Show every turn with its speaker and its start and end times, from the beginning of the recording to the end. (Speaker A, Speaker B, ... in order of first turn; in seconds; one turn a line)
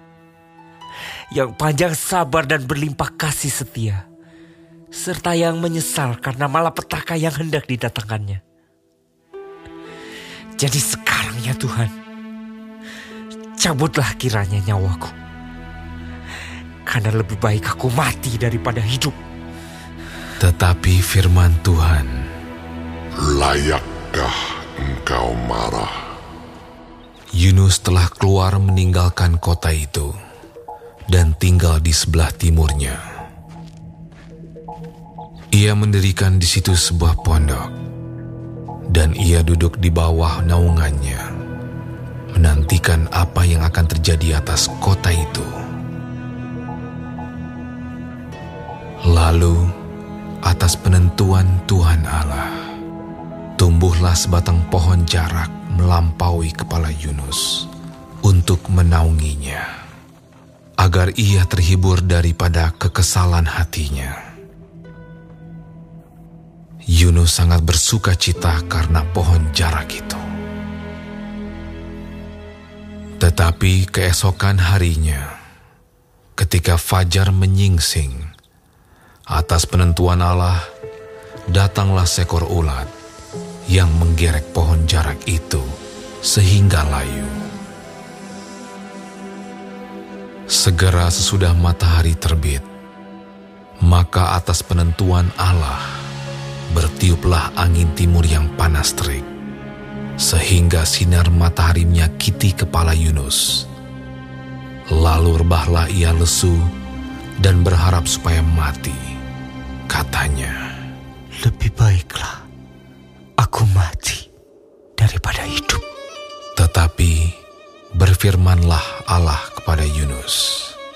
Speaker A: 1.3-4.0
Speaker A: 4.9-8.4
Speaker A: 10.6-11.9
Speaker A: 13.6-15.1
Speaker A: 16.9-19.2
Speaker B: 20.4-22.3
Speaker C: 23.3-25.9
Speaker B: 27.4-30.1
Speaker B: 31.1-33.0
Speaker B: 35.5-37.7
Speaker B: 38.9-41.3
Speaker B: 42.3-45.5
Speaker B: 49.1-49.7
Speaker B: 50.4-52.5
Speaker B: 53.6-57.7
Speaker B: 58.2-59.7
Speaker B: 60.8-64.2
Speaker B: 66.9-70.2
Speaker B: 73.2-75.3
Speaker B: 76.4-78.3
Speaker B: 79.3-80.6
Speaker B: 81.5-82.9
Speaker B: 83.7-85.7
Speaker B: 86.2-87.4
Speaker B: 90.5-92.7
Speaker B: 93.9-95.9
Speaker B: 96.7-99.3
Speaker B: 100.2-103.7
Speaker B: 104.9-106.7
Speaker B: 107.4-109.2
Speaker B: 109.9-110.6
Speaker A: 111.4-112.4
Speaker A: 113.4-114.3
Speaker A: 115.0-115.8
Speaker B: 116.6-117.4
Speaker B: 118.0-120.8